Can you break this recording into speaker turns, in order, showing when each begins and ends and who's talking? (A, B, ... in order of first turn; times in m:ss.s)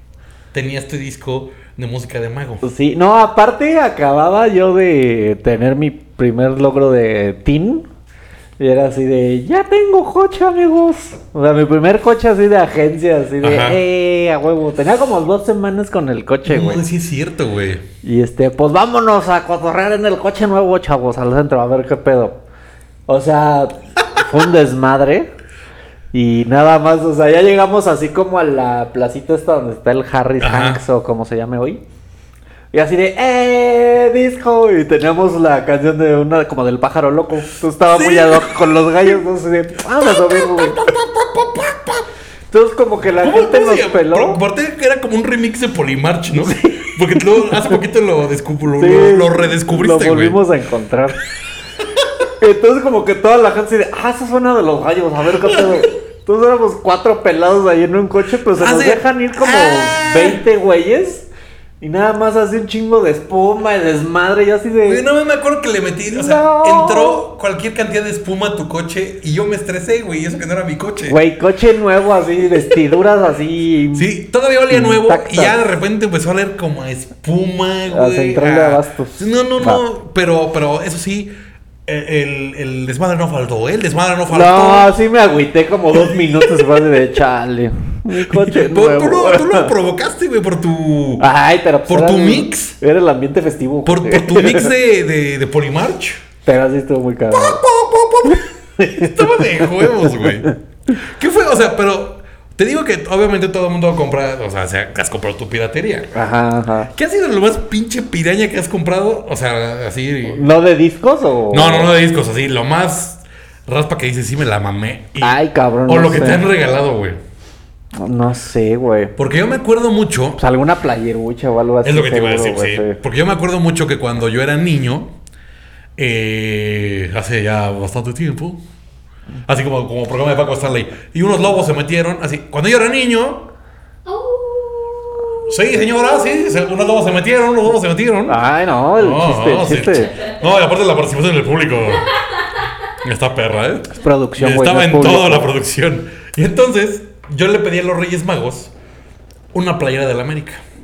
0:00.5-0:02.6 A
0:02.6-0:07.9 B
0:08.6-0:16.8 B
0:13.4-0:13.8 A
0:16.4-0:17.8 A
0:18.0-0:22.4 B
0:23.1-0:25.3 B
0:26.1-0:31.8 B
0:30.4-0:30.8 A
0:32.7-0:40.8 B
0:37.9-0:39.2 A
0:40.0-0:42.1 A
0:42.5-0:44.4 B
0:43.2-0:50.4 A
0:46.4-0:47.8 B
0:48.8-0:51.2 B
0:52.4-1:01.3 B
0:55.4-0:55.9 A
0:58.5-1:00.4 A
1:01.8-1:05.0 B
1:04.9-1:11.2 A
1:06.1-1:07.2 B
1:11.1-1:14.1 B
1:13.9-1:21.3 A
1:14.7-1:15.6 B
1:17.9-1:19.8 B
1:21.9-1:24.9 A
1:24.3-1:29.7 B
1:25.9-1:26.8 A
1:28.1-1:31.3 A
1:31.2-1:34.7 B
1:31.9-1:32.8 A
1:33.8-1:36.2 A
1:36.5-1:37.6 B
1:37.3-1:46.1 A
1:38.2-1:40.5 B
1:46.1-1:46.9 B
1:46.9-1:50.5 A
1:50.3-1:51.9 B
1:51.5-1:57.2 A
1:55.2-1:56.4 B
1:58.0-1:59.2 B
1:59.2-2:00.4 A
2:00.4-2:03.0 B
2:01.8-2:05.1 A
2:06.0-2:08.6 A
2:09.5-2:13.5 A
2:14.1-2:16.4 C
2:15.4-2:18.4 A
2:18.3-2:20.1 B
2:19.0-2:22.1 A
2:20.1-2:20.4 C
2:22.1-2:22.7 C
2:23.0-2:28.7 A
2:24.0-2:25.5 B
2:29.5-2:30.6 A